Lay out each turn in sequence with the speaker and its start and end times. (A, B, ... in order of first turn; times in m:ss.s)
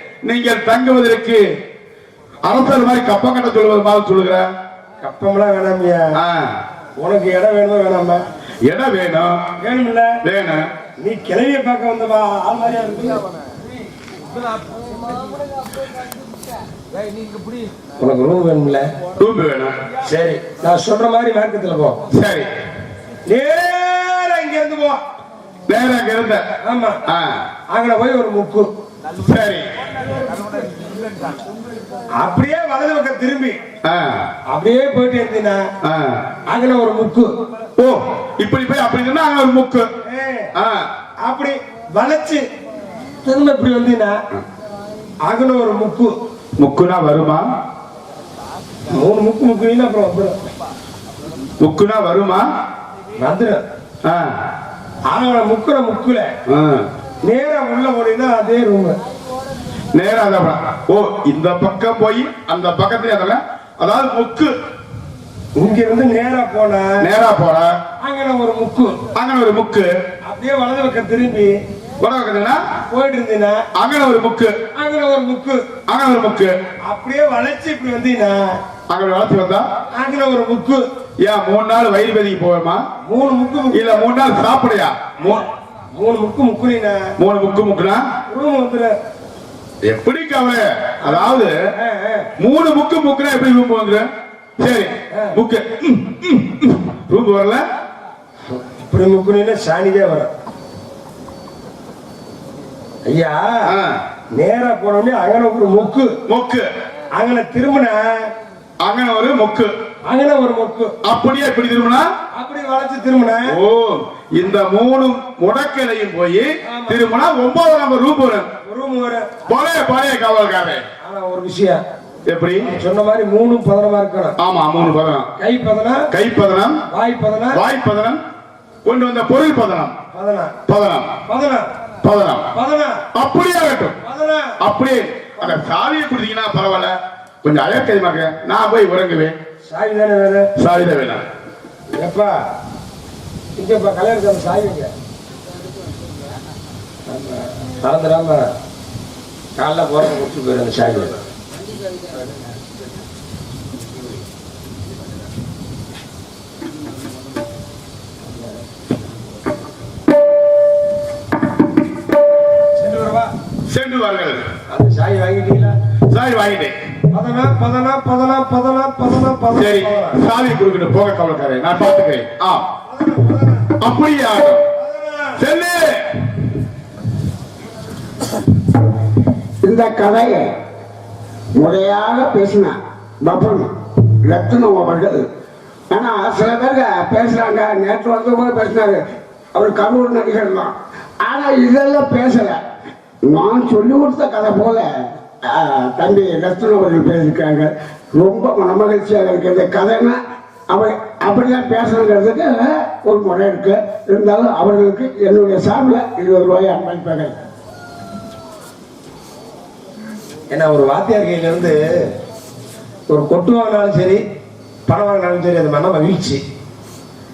0:00.2-0:01.4 A
0:02.4-0:04.5 A
0:05.0-0:06.2 B
0:06.2-0:06.6 A
0:07.0-0:08.2 B
0:08.6-0:09.4 A
0:09.6-0:10.2 B
0:10.2-0:10.7 A
0:11.0-0:13.2 B
0:18.0-0:18.9 B
0:19.2-0:19.8 A
0:20.0-0:22.0 B
0:22.1-0:22.5 A
0:23.3-0:25.0 B
0:25.7-0:26.4 A
0:26.6-0:27.0 B
0:27.0-0:27.4 A
0:27.7-0:28.7 B
0:29.2-0:29.6 A
0:32.2-0:33.6 B
0:33.8-0:34.3 A
0:34.5-0:35.7 B
0:35.8-0:36.2 A
0:36.4-0:37.4 B
0:37.8-0:39.9 A
0:40.0-0:40.5 B
0:40.5-0:40.9 A
0:41.2-0:42.4 B
0:43.2-0:44.2 B
0:45.2-0:46.1 B
0:46.6-0:47.5 A
0:48.9-0:50.4 B
0:51.6-0:52.4 A
0:53.2-0:53.6 B
0:54.0-0:54.4 A
0:55.1-0:56.3 B
0:56.4-0:56.9 A
0:57.2-0:58.9 B
0:59.9-1:04.5 A
1:05.6-1:07.0 B
1:07.0-1:07.8 A
1:08.0-1:09.0 B
1:09.1-1:09.9 A
1:10.3-1:11.6 B
1:12.0-1:12.6 A
1:12.9-1:13.6 B
1:13.7-1:14.5 A
1:14.7-1:15.6 B
1:15.9-1:16.5 A
1:16.9-1:18.6 B
1:18.9-1:19.7 A
1:19.9-1:20.8 B
1:21.2-1:22.8 A
1:23.0-1:23.8 B
1:23.7-1:25.4 A
1:25.9-1:27.1 B
1:27.2-1:28.1 A
1:28.3-1:29.0 B
1:29.8-1:31.5 A
1:31.7-1:32.3 B
1:32.4-1:34.1 A
1:34.6-1:37.6 A
1:35.1-1:35.4 B
1:38.5-1:40.3 B
1:43.0-1:43.7 B
1:43.6-1:44.0 A
1:44.3-1:46.2 B
1:46.3-1:46.7 A
1:47.2-1:48.3 B
1:48.8-1:49.7 A
1:50.1-1:50.9 B
1:51.0-1:52.1 A
1:52.3-1:53.5 B
1:53.5-1:58.5 A
1:56.6-1:57.0 B
1:58.6-1:59.3 B
1:59.4-2:00.8 A
2:01.0-2:01.8 B
2:02.2-2:02.7 A
2:02.6-2:04.4 B
2:04.4-2:05.3 A
2:05.4-2:06.1 B
2:06.1-2:06.8 A
2:06.9-2:07.6 B
2:07.5-2:08.2 A
2:08.8-2:10.0 A
2:10.1-2:10.6 B
2:10.7-2:11.2 A
2:11.3-2:11.7 B
2:12.0-2:12.5 A
2:12.5-2:13.0 B
2:13.1-2:14.0 A
2:14.0-2:14.6 B
2:14.6-2:19.4 A
2:19.7-2:20.5 B
2:20.6-2:21.2 A
2:21.9-2:22.4 B
2:23.6-2:24.9 B
2:27.1-2:28.5 B
2:29.6-2:31.2 B
2:42.8-2:43.3 B
2:43.7-2:44.5 A
2:44.7-2:45.7 B
2:46.1-2:46.8 A
2:47.1-2:50.2 B
2:49.5-2:52.7 A
2:52.9-2:53.7 B
2:53.8-2:54.7 A
2:54.7-2:55.4 B
2:55.4-2:56.4 A
2:59.6-3:00.6 C
3:01.5-3:05.3 C
3:05.9-3:12.6 C
3:13.2-3:27.4 C
3:30.5-3:31.9 B
3:33.1-3:34.2 B
3:34.9-3:36.4 B